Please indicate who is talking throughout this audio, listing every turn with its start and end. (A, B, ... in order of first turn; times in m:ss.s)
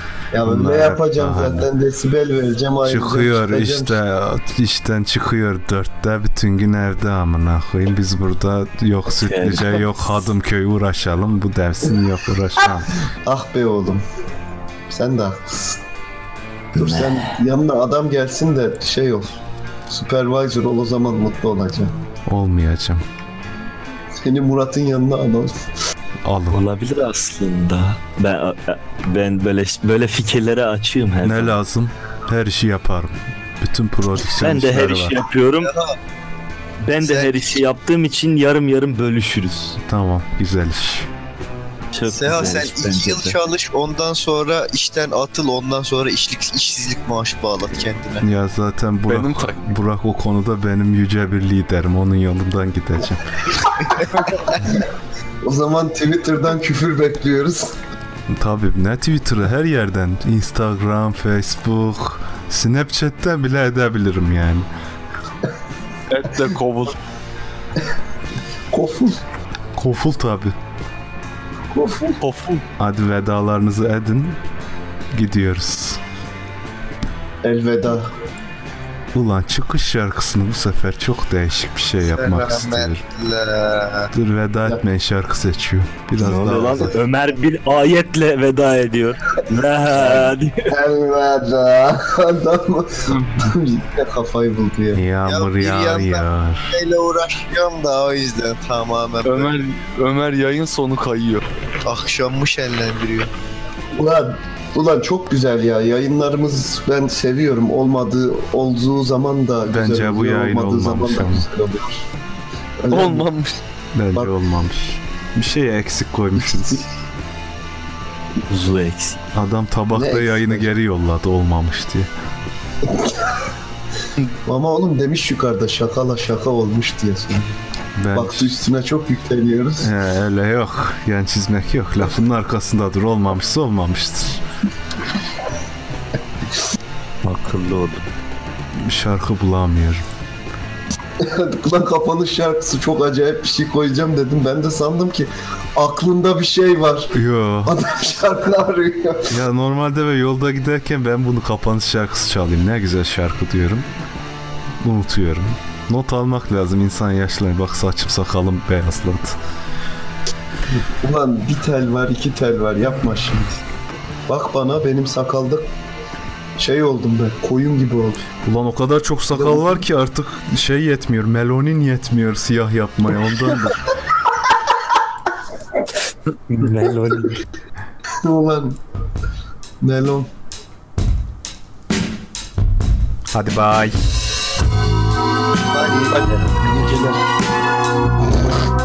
0:00.3-0:04.0 A
0:00.4-0:01.7 B
0:02.8-0:13.0 B
0:09.1-0:10.0 C
0:13.2-0:14.0 A
0:14.9-0:15.8 A
0:16.7-0:21.9 A
0:16.8-0:17.3 C
0:22.3-0:23.0 B
0:24.1-0:25.7 A
0:26.2-0:26.6 B
0:26.5-0:31.5 C
0:31.2-0:35.2 B
0:34.3-0:35.7 C
0:35.6-0:35.9 D
0:36.8-0:39.8 C
0:37.0-0:37.6 D
0:39.8-0:41.1 B
0:41.9-0:43.4 C
0:42.1-0:48.2 D
0:48.2-0:53.3 B
0:49.1-0:49.6 E
0:55.4-0:57.7 A
0:58.3-1:04.7 B
1:06.1-1:07.0 E
1:08.7-1:09.2 A
1:09.8-1:10.5 B
1:11.7-1:12.2 A
1:12.2-1:12.6 E
1:12.8-1:14.4 B
1:15.1-1:16.0 B
1:17.4-1:18.1 A
1:19.1-1:23.0 B
1:22.0-1:24.1 D
1:24.1-1:26.9 B
1:26.2-1:30.7 C
1:29.9-1:35.0 A
1:33.1-1:33.5 E
1:34.9-1:36.8 B
1:35.2-1:39.5 D
1:39.2-1:41.4 E
1:41.8-1:43.3 D
1:43.9-1:52.0 A
1:49.6-1:51.5 B
1:52.8-1:53.3 A
1:52.9-1:53.6 E
1:53.9-1:56.8 B
1:58.5-1:59.2 C
1:59.3-2:02.1 B
1:59.9-2:00.7 A
2:02.8-2:03.4 A
2:04.4-2:07.5 A
2:08.0-2:08.6 B
2:08.1-2:09.9 A
2:09.8-2:14.4 B
2:17.2-2:18.0 C
2:18.7-2:20.0 B
2:21.2-2:29.4 A
2:27.1-2:27.7 B
2:29.3-2:33.9 B
2:34.8-2:39.4 B
2:40.7-2:43.5 A
2:44.3-2:45.7 A
2:46.6-2:48.2 A
2:48.4-2:53.9 B
2:49.3-2:49.8 A
2:56.5-2:57.4 C
2:58.2-2:58.8 A
2:59.8-3:00.3 A
3:03.3-3:04.0 B
3:05.7-3:06.2 D
3:05.8-3:07.2 A
3:06.2-3:07.1 C